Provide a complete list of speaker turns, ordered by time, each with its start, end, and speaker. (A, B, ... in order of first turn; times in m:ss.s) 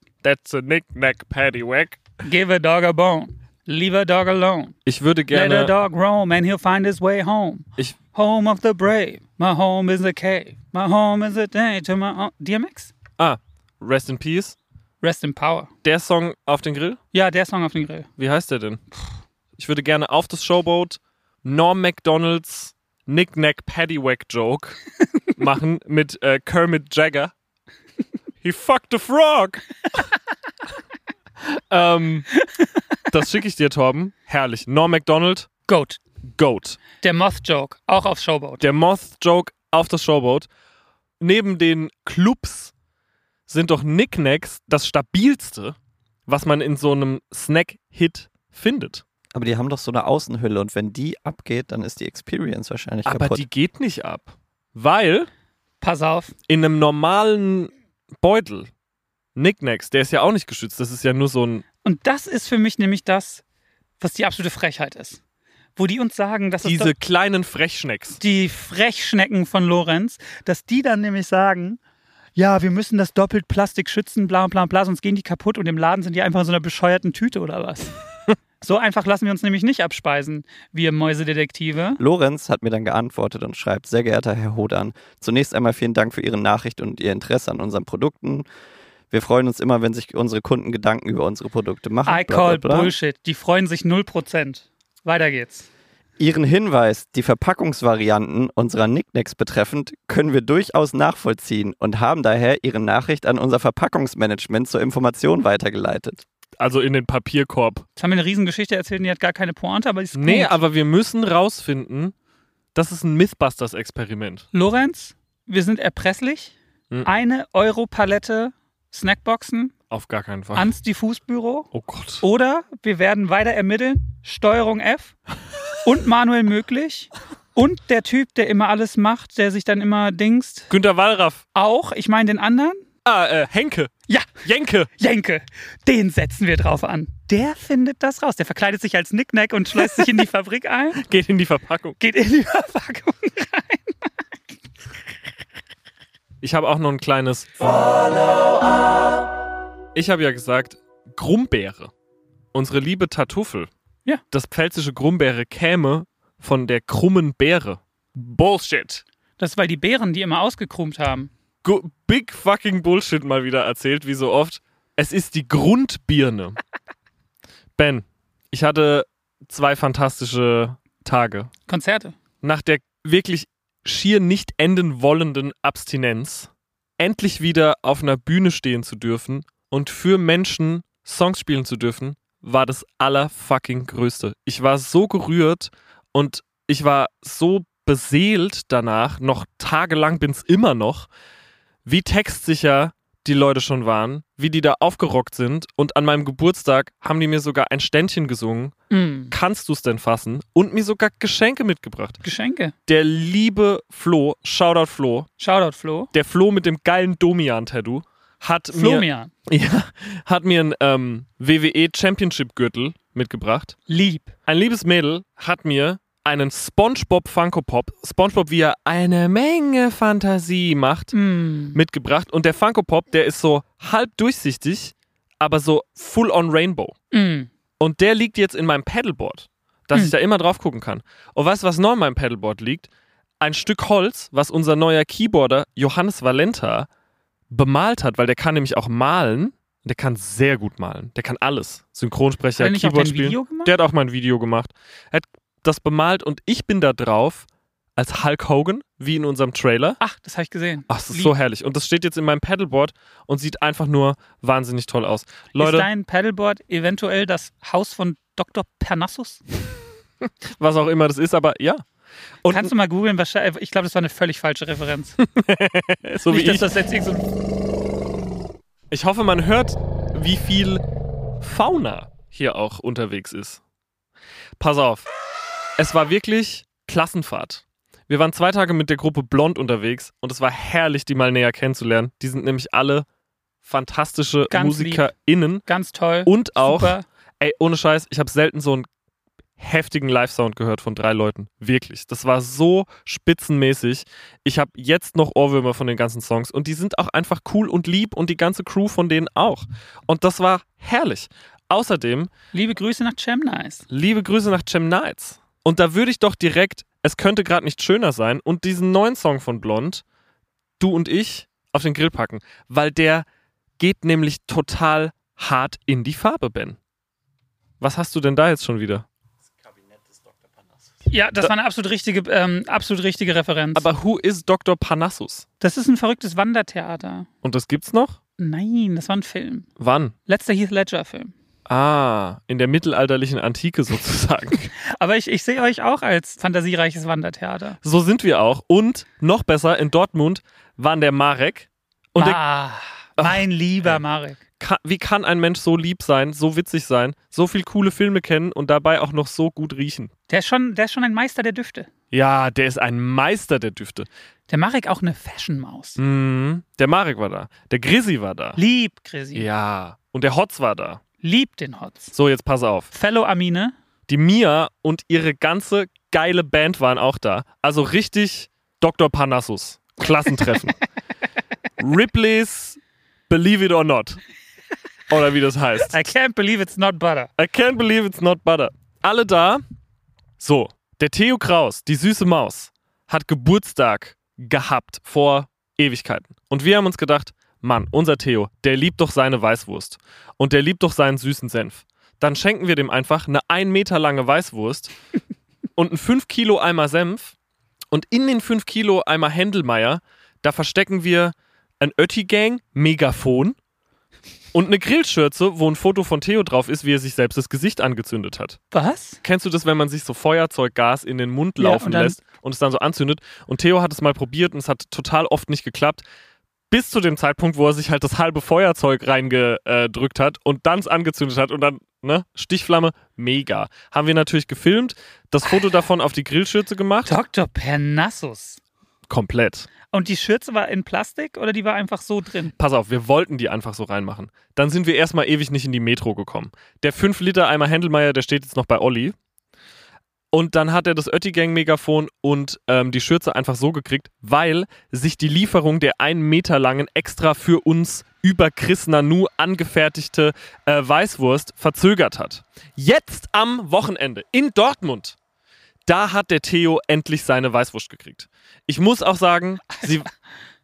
0:00.2-0:02.0 A
0:02.2-0:04.8 B
0:04.9-0:05.7 A
0:05.3-0:12.9 B
0:13.2-0:14.6 A
0:15.0-0:15.7 B
0:15.8-0:17.0 A
0:17.1-0:18.1 B
0:18.2-0:18.8 A
0:19.6-0:24.8 A
0:25.3-0:27.3 A
0:28.4-0:30.0 A
0:31.5-0:32.4 A
0:33.1-0:35.5 A
0:35.7-0:36.0 B
0:36.4-0:36.8 A
0:37.0-0:38.6 B
0:38.6-0:40.5 A
0:41.2-0:42.7 A
0:43.5-0:45.8 A
0:46.3-0:49.0 A
0:49.3-0:53.4 C
0:53.0-0:55.3 A
0:55.8-0:56.3 B
0:56.5-0:58.7 A
0:59.4-1:01.6 A
1:01.8-1:03.4 B
1:04.0-1:05.2 B
1:05.8-1:06.9 B
1:06.6-1:08.2 A
1:08.2-1:11.8 B
1:12.4-1:18.0 B
1:18.6-1:22.0 B
1:22.0-1:28.5 C
1:29.1-1:32.9 C
1:32.1-1:35.7 B
1:36.2-1:46.2 C
1:46.6-1:47.9 A
1:48.0-1:50.6 B
1:50.2-1:52.1 A
1:52.8-1:54.5 A
1:54.5-1:59.7 B
1:59.9-2:00.7 A
2:00.6-2:01.7 B
2:01.7-2:02.2 A
2:02.2-2:05.2 B
2:05.8-2:10.7 B
2:10.7-2:11.4 A
2:11.6-2:12.8 B
2:13.0-2:14.9 A
2:14.1-2:14.4 B
2:15.0-2:21.0 B
2:21.0-2:22.0 A
2:22.0-2:24.0 B
2:26.4-2:28.4 A
2:30.0-2:31.9 A
2:32.5-2:33.7 A
2:34.3-2:39.0 A
2:39.4-2:41.3 B
2:41.6-2:46.6 A
2:47.8-2:51.5 A
2:51.7-2:52.2 B
2:52.4-3:11.1 A
3:11.8-3:18.7 A
3:18.9-3:19.3 B
3:19.3-3:22.2 A
3:22.2-3:22.7 B
3:22.9-3:25.3 A
3:25.4-3:26.1 B
3:26.1-3:33.8 A
3:28.7-3:29.3 B
3:33.9-3:34.3 B
3:34.5-3:41.2 A
3:41.1-3:41.8 B
3:41.7-3:47.0 A
3:47.1-3:47.5 B
3:47.8-3:52.9 A
3:53.4-3:56.9 A
3:57.5-4:10.0 A
4:02.6-4:03.7 B
4:10.0-4:11.3 B
4:10.9-4:15.9 A
4:15.6-4:19.4 B
4:20.5-4:21.8 A
4:22.4-4:22.7 A
4:22.5-4:25.2 B
4:25.2-4:26.7 A
4:26.3-4:27.3 B
4:28.9-4:30.8 A
4:31.4-4:33.6 A
4:34.6-4:35.1 A
4:35.8-4:43.1 A
4:43.6-4:45.7 A
4:44.5-4:45.1 B
4:45.7-4:47.0 B
4:46.3-4:48.9 A
4:49.6-5:02.3 A
5:02.5-5:03.8 B
5:03.9-5:10.0 A
5:10.8-5:13.3 A
5:13.8-5:16.8 A
5:17.8-5:19.1 A
5:21.1-5:23.9 B
5:23.8-5:25.5 A
5:25.6-5:27.3 B
5:27.4-5:28.2 A
5:28.4-5:29.7 B
5:29.8-5:30.2 A
5:30.3-5:31.3 B
5:31.7-5:34.7 A
5:34.8-5:37.8 B
5:37.8-5:42.4 A
5:42.2-5:44.4 B
5:43.2-5:44.0 A
5:44.6-5:50.1 A
5:50.3-5:51.9 B
5:52.1-5:54.1 A
5:54.5-5:56.0 B
5:56.0-5:58.6 A
5:58.6-5:59.5 B
5:59.4-6:01.0 A
6:01.2-6:02.1 B
6:02.1-6:02.9 A
6:02.9-6:03.7 B
6:04.1-6:10.8 A
6:11.8-6:14.2 A
6:15.1-6:16.0 A
6:15.9-6:17.3 B
6:17.4-6:19.6 A
6:20.4-6:34.9 A
6:35.8-6:37.4 A
6:37.9-6:43.6 A
6:44.5-6:48.6 A
6:48.7-6:49.2 B
6:49.2-6:56.0 A
6:51.6-6:52.2 B
6:56.7-7:07.2 A
7:07.1-7:08.6 B
7:09.1-7:09.7 A
7:09.9-7:12.5 B
7:12.6-7:19.2 A
7:20.3-7:35.2 A
7:35.9-7:40.1 A